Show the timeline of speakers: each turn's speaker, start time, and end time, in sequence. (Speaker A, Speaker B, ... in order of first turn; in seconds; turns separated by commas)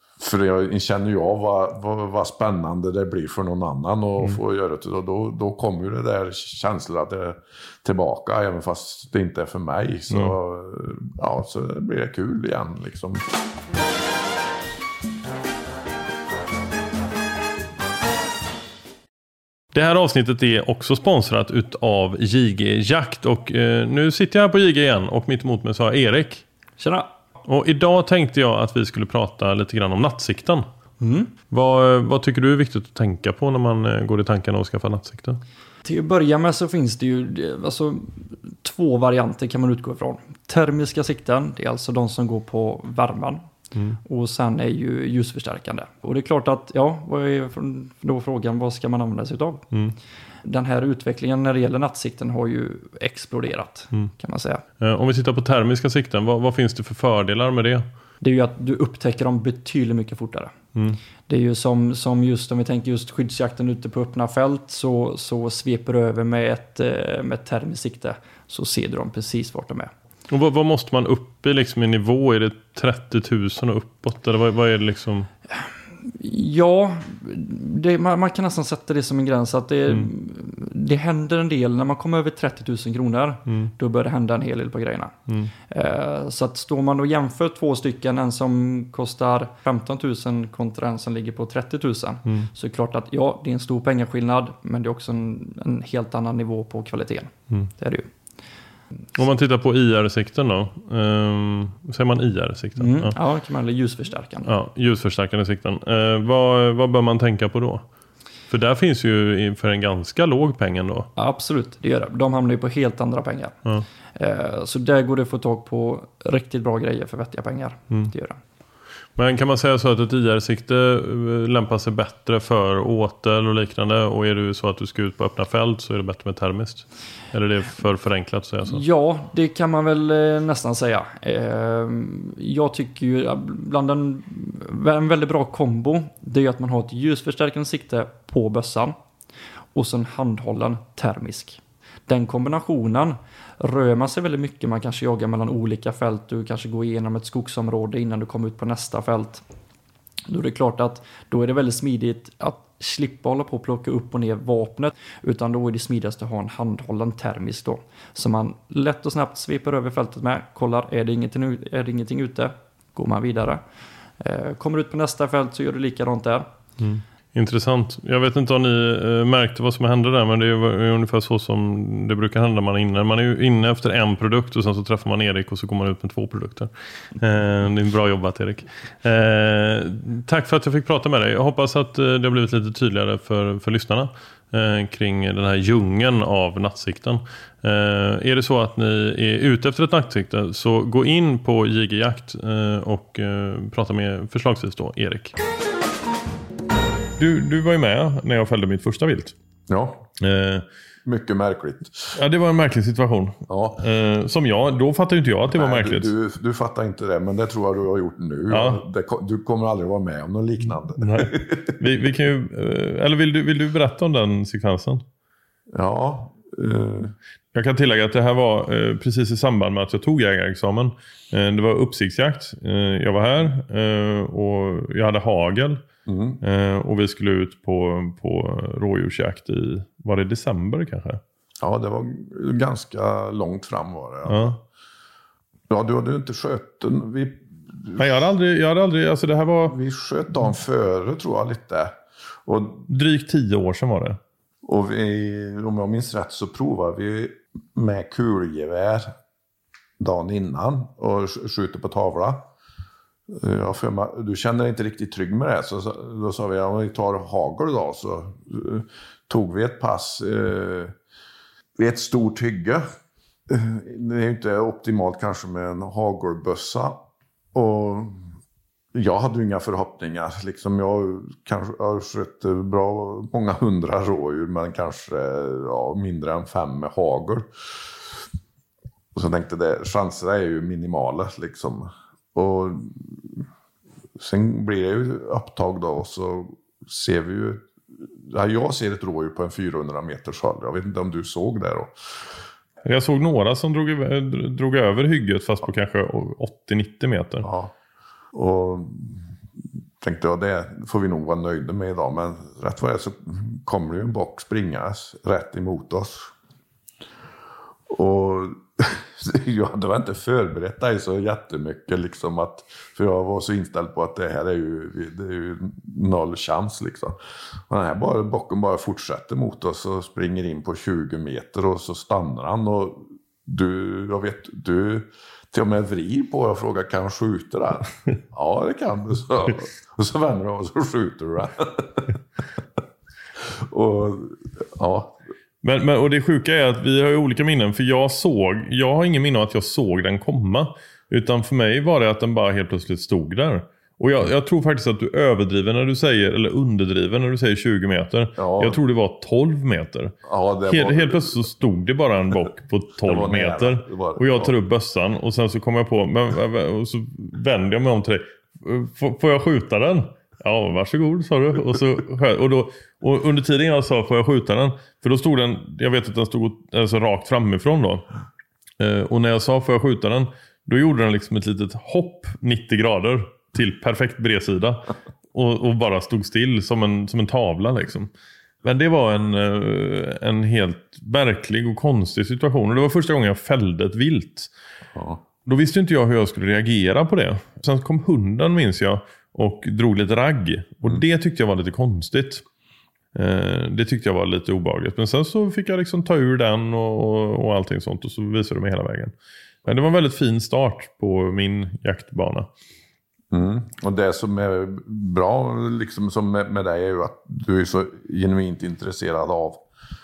Speaker A: 0.2-13.2, Speaker B: 10.1-10.4, Speaker B: 19.7-26.5, Speaker C: 26.8-27.1, Speaker B: 27.4-30.7, Speaker C: 31.0-31.3, Speaker B: 31.5-35.4, Speaker C: 35.9-43.5, Speaker C: 44.0-49.6, Speaker C: 50.5-54.6, Speaker B: 54.8-57.9, Speaker C: 58.2-60.5, Speaker B: 60.8-61.0, Speaker C: 61.3-69.9, Speaker B: 70.3-75.3, Speaker C: 76.2-85.1, Speaker B: 83.5-83.7, Speaker C: 85.7-98.1, Speaker B: 99.2-103.2, Speaker C: 102.8-104.5, Speaker B: 104.5-107.8, Speaker B: 108.5-111.1, Speaker C: 111.2-113.6, Speaker C: 114.2-118.4, Speaker B: 119.2-128.8, Speaker C: 128.7-139.0, Speaker C: 139.8-149.4, Speaker C: 150.3-163.6, Speaker C: 164.2-166.5, Speaker B: 166.8-195.3, Speaker B: 197.2-199.3, Speaker A: 199.7-200.1, Speaker B: 200.2-200.7, Speaker A: 201.1-202.2, Speaker B: 202.2-206.1, Speaker A: 203.5-203.8, Speaker A: 205.5-211.8, Speaker B: 208.5-208.8, Speaker B: 210.9-215.0, Speaker A: 215.7-217.2, Speaker B: 217.5-225.8, Speaker A: 226.1-226.4, Speaker B: 226.4-231.2, Speaker A: 231.6-234.6, Speaker B: 234.3-234.6, Speaker A: 235.7-238.1, Speaker B: 238.0-239.8, Speaker A: 239.7-242.9, Speaker B: 242.9-244.2, Speaker A: 244.6-249.1, Speaker A: 250.0-252.5, Speaker A: 253.3-260.9, Speaker A: 261.8-262.9, Speaker A: 263.5-268.3, Speaker A: 268.9-277.9, Speaker A: 279.1-283.4, Speaker A: 284.2-292.0, Speaker B: 292.9-297.5, Speaker A: 297.4-297.7, Speaker A: 298.3-299.2, Speaker A: 300.0-306.3, Speaker A: 307.9-332.2, Speaker A: 333.4-335.2, Speaker B: 335.6-350.1, Speaker A: 348.4-348.8, Speaker A: 350.2-351.5, Speaker B: 350.7-368.1, Speaker A: 353.0-354.6, Speaker B: 368.8-378.1, Speaker B: 378.6-384.5, Speaker A: 384.9-385.2, Speaker B: 385.4-392.4, Speaker B: 393.1-399.1, Speaker B: 399.7-402.5, Speaker A: 403.3-409.6